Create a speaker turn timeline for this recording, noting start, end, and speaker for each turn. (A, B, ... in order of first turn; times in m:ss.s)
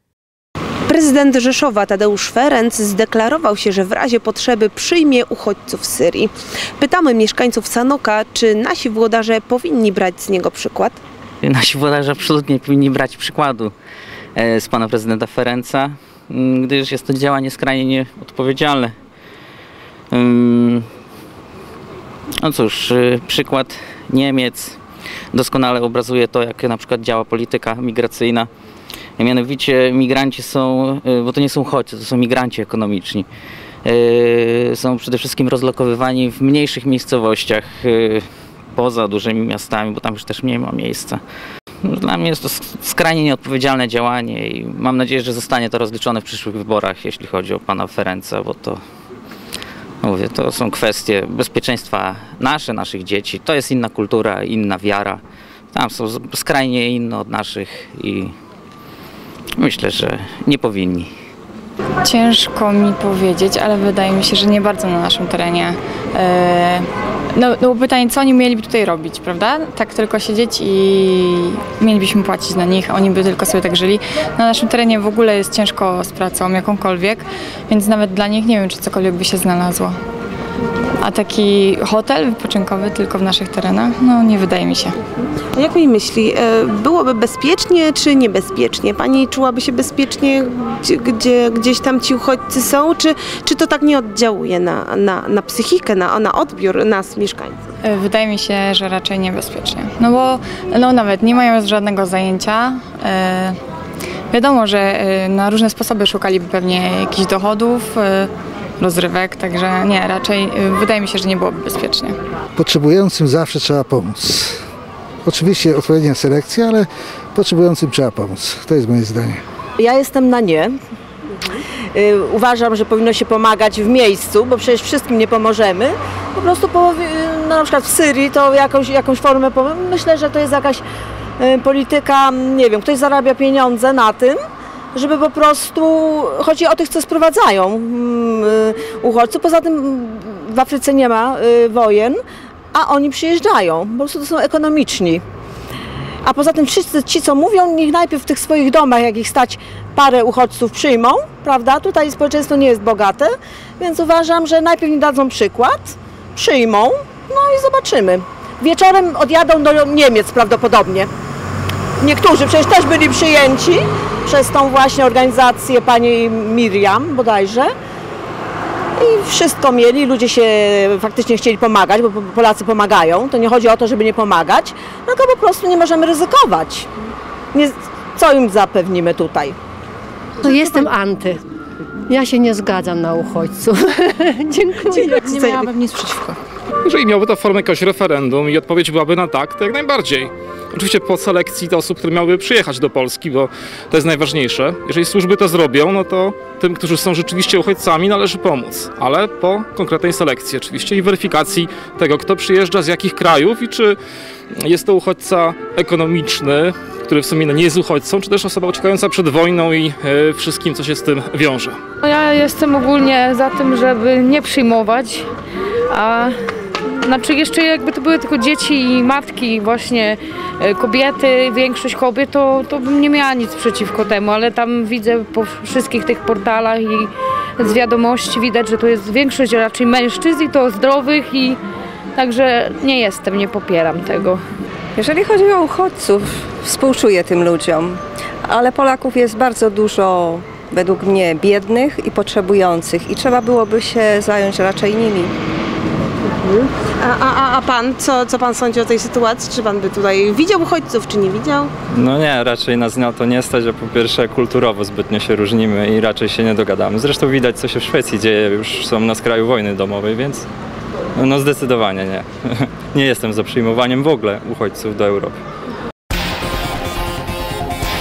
0:00.9-0:11.0 A
0:11.4-0:13.7 B
0:14.4-0:18.9 B
0:20.1-0:20.8 B
0:22.4-0:24.8 B
0:25.3-0:28.5 B
0:29.2-0:33.3 B
0:33.8-0:38.2 B
0:38.7-0:41.2 B
0:41.8-0:48.8 B
0:50.0-0:55.2 B
0:55.7-0:58.3 B
0:59.6-1:01.1 B
1:02.0-1:19.9 C
1:21.0-1:24.9 C
1:25.5-1:37.6 A
1:37.8-1:43.6 C
1:44.3-1:52.2 C
1:52.6-1:54.6 D
1:55.2-1:59.4 D
1:59.8-2:00.8 E
2:01.9-2:10.8 E
2:11.4-2:14.4 E
2:14.9-2:22.2 E
2:22.7-2:25.2 E
2:26.2-2:41.1 E
2:42.0-2:47.7 E
2:49.0-2:56.9 E
2:57.5-2:59.6 E
3:00.4-3:01.4 F
3:02.1-3:05.5 F
3:05.4-3:05.9 A
3:06.8-3:24.0 G
3:24.6-3:31.8 G
3:32.0-3:35.3 H
3:35.9-3:51.6 H
3:52.2-3:54.4 H
3:55.0-4:05.3 I
4:06.4-4:11.7 A
4:11.9-4:20.5 J
4:21.2-4:25.4 J